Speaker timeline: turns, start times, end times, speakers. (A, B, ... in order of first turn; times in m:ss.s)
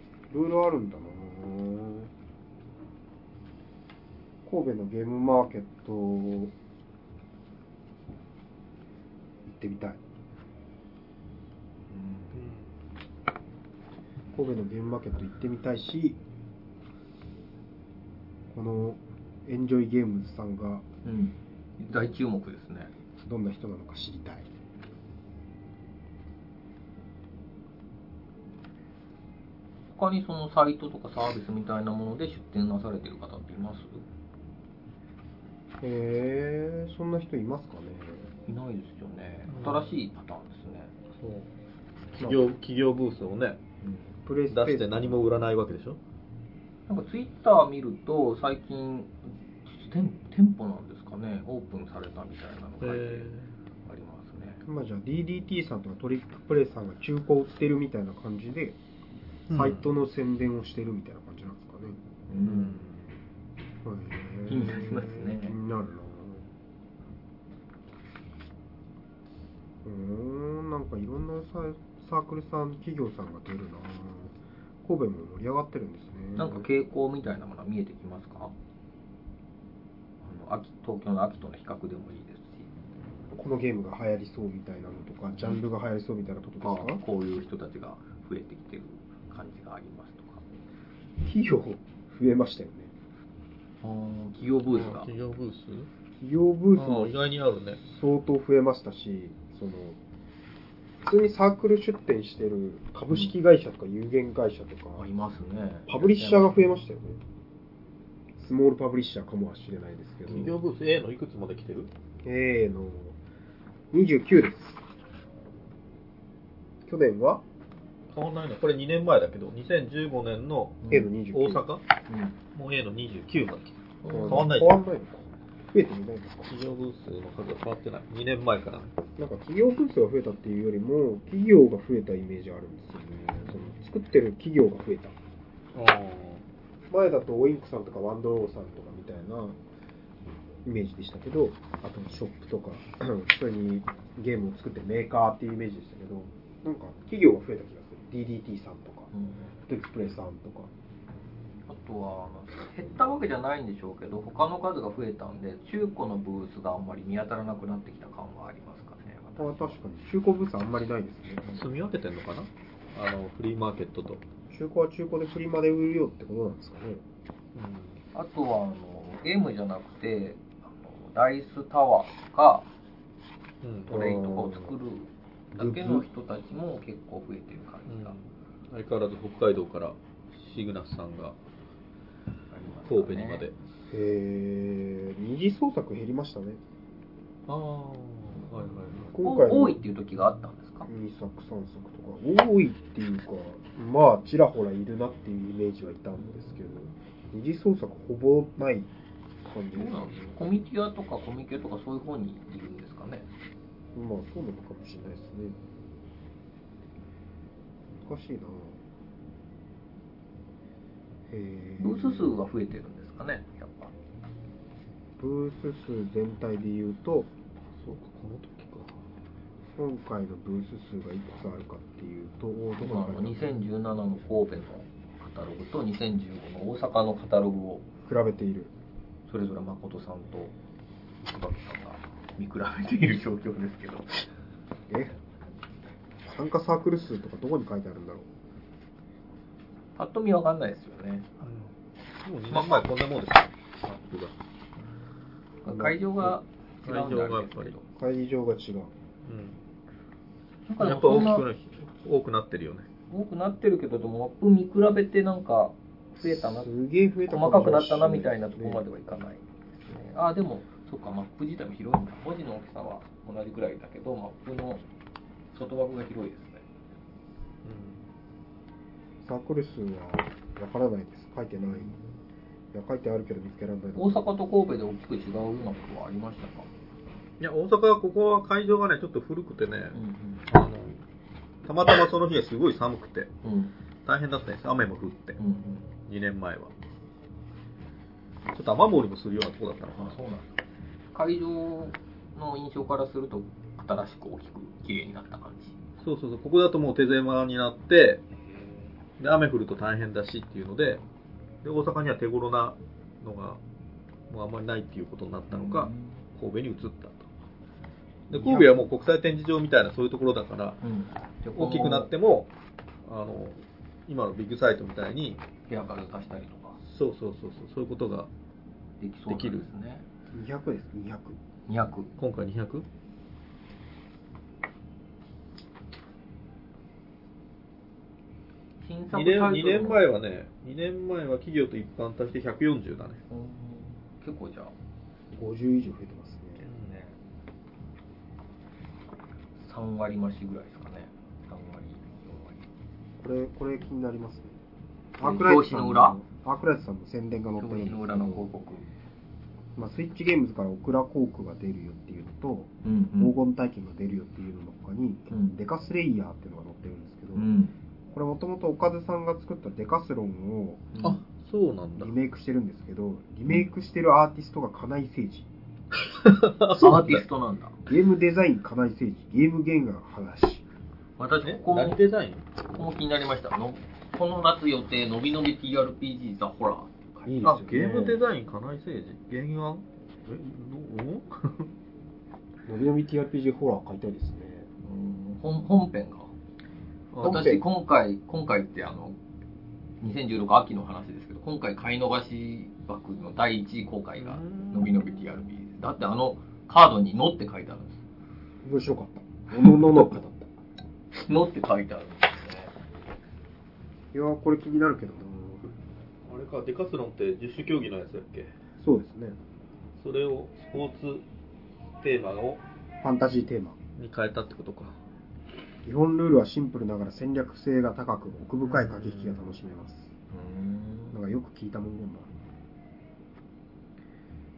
0:00.3-0:02.1 A
0:04.4-0:06.5 A
0:09.4-0:10.0 A
0:11.9-0:12.4 B
0:12.3-0:12.6 C
0:14.3-0:16.2 A
0:18.5-0:20.8 A
0:21.0-0:22.9 B
0:23.2-0:24.5 A
0:29.9-0:34.0 B
0:35.8-0:38.3 A
0:38.5-0:40.9 B
0:39.5-0:39.9 C
0:41.2-0:41.5 C
0:42.1-0:42.4 A
0:42.2-0:43.6 C
0:43.8-0:44.2 B
0:44.2-0:45.3 A
0:44.5-0:46.0 C
0:46.9-0:53.3 B
0:52.8-0:53.5 C
0:53.8-0:54.6 B
0:54.6-0:58.8 A
0:59.5-0:59.9 C
0:59.5-1:02.0 A
1:02.3-1:02.9 B
1:02.4-1:03.0 C
1:03.8-1:06.5 A
1:04.5-1:05.6 B
1:09.8-1:16.6 A
1:16.4-1:18.5 B
1:20.2-1:22.7 B
1:23.4-1:27.0 A
1:26.6-1:30.4 B
1:31.2-1:32.9 A
1:33.8-1:35.1 B
1:34.7-1:35.9 C
1:36.2-1:37.2 A
1:36.7-1:37.8 C
1:37.8-1:40.0 A
1:41.0-1:45.0 A
1:45.0-1:46.7 B
1:45.9-1:47.2 A
1:48.4-1:50.6 A
1:50.3-1:51.9 C
1:52.2-1:53.2 A
1:53.9-1:54.8 A
1:56.8-1:57.4 A
1:58.1-2:01.8 C
2:00.8-2:01.1 B
2:00.9-2:01.6 A
2:02.1-2:02.4 B
2:02.5-2:04.8 C
2:04.0-2:04.5 B
2:04.1-2:06.5 A
2:06.5-2:09.0 C
2:09.2-2:15.2 A
2:15.7-2:16.4 C
2:16.9-2:19.6 A
2:20.6-2:29.1 A
2:29.1-2:29.5 B
2:29.7-2:30.7 A
2:31.7-2:39.8 B
2:39.4-2:41.4 A
2:41.5-2:44.2 C
2:44.5-2:47.0 A
2:47.5-2:48.0 C
2:48.1-2:52.7 B
2:53.6-2:53.9 C
2:53.9-2:58.2 B
2:53.9-2:54.7 A
2:55.5-2:56.1 A
2:57.8-3:01.4 C
3:02.5-3:03.4 B
3:02.8-3:03.5 C
3:03.9-3:06.6 A
3:07.5-3:09.1 C
3:09.1-3:09.8 A
3:09.1-3:10.9 B
3:10.8-3:18.9 A
3:19.4-3:20.4 A
3:19.7-3:23.3 B
3:23.9-3:25.6 A
3:27.9-3:28.8 A
3:31.3-3:32.4 A
3:31.8-3:33.9 B
3:35.2-3:37.3 A
3:37.8-3:39.0 C
3:39.7-3:43.6 A
3:42.8-3:47.9 B
3:48.0-3:48.7 A
3:49.3-3:50.5 B
3:51.2-3:54.2 B
3:54.9-3:55.1 A
3:56.2-3:58.3 A
4:00.0-4:01.4 B
4:01.4-4:01.7 C
4:02.2-4:04.3 C
4:02.5-4:02.8 B
4:04.8-4:05.1 B
4:05.6-4:07.9 B
4:05.7-4:06.4 A
4:06.8-4:07.7 C
4:08.0-4:08.9 A
4:09.2-4:09.6 C
4:10.7-4:11.4 B
4:10.8-4:12.9 C
4:13.1-4:16.7 B
4:16.2-4:18.8 A
4:17.3-4:24.8 B
4:25.5-4:26.6 B
4:27.6-4:28.0 C
4:29.2-4:31.9 A
4:32.7-4:34.3 A
4:34.0-4:36.7 B
4:37.4-4:41.0 C
4:39.9-4:40.4 B
4:41.6-4:43.3 C
4:43.4-4:43.7 B
4:44.0-4:45.4 C
4:45.4-4:45.9 B
4:46.0-4:46.7 C
4:48.5-4:50.2 C
4:50.0-4:50.6 B
4:51.1-4:55.8 B
4:56.0-4:58.2 C
4:59.2-5:01.0 C
5:01.6-5:03.6 C
5:04.3-5:07.3 C
5:05.5-5:06.2 B
5:08.3-5:10.8 C
5:08.3-5:08.9 A
5:10.8-5:12.1 B
5:11.5-5:12.5 C
5:13.0-5:15.4 C
5:15.7-5:16.8 B
5:16.8-5:18.3 C
5:19.0-5:20.0 B
5:19.3-5:19.7 C
5:20.3-5:21.4 A
5:21.7-5:22.1 B
5:22.2-5:22.8 C
5:28.8-5:30.0 B
5:29.1-5:33.2 C
5:33.3-5:34.7 B
5:35.3-5:36.6 A
5:36.6-5:37.0 C
5:36.7-5:37.1 B
5:39.6-5:42.6 B
5:43.2-5:44.6 A
5:45.2-5:48.5 A
5:45.2-5:46.2 B
5:47.6-5:48.9 B
5:49.8-5:57.5 A
5:52.8-5:53.3 B
5:57.3-5:57.7 B
5:58.1-6:00.8 A
6:00.9-6:01.2 B
6:01.0-6:02.1 C
6:02.0-6:05.5 A
6:06.0-6:07.2 C
6:06.7-6:07.8 B
6:07.9-6:10.6 A
6:11.2-6:12.0 B
6:11.4-6:12.4 C
6:12.7-6:17.4 B
6:17.2-6:18.2 A
6:17.4-6:21.7 C
6:22.6-6:24.7 A
6:24.8-6:26.3 B
6:27.1-6:27.6 C
6:27.2-6:29.2 B
6:27.2-6:27.6 A
6:30.0-6:38.0 B
6:34.2-6:35.0 C
6:38.6-6:40.5 A
6:39.6-6:39.9 B
6:41.1-6:42.7 B
6:44.1-6:45.7 A
6:46.2-6:48.5 C
6:48.8-6:49.4 A
6:50.0-6:51.2 C
6:52.0-6:52.6 C
6:53.0-6:53.8 A
6:54.0-6:55.0 C
6:55.8-7:00.1 A
6:58.6-6:59.6 C
7:00.3-7:01.2 B
7:01.1-7:02.3 A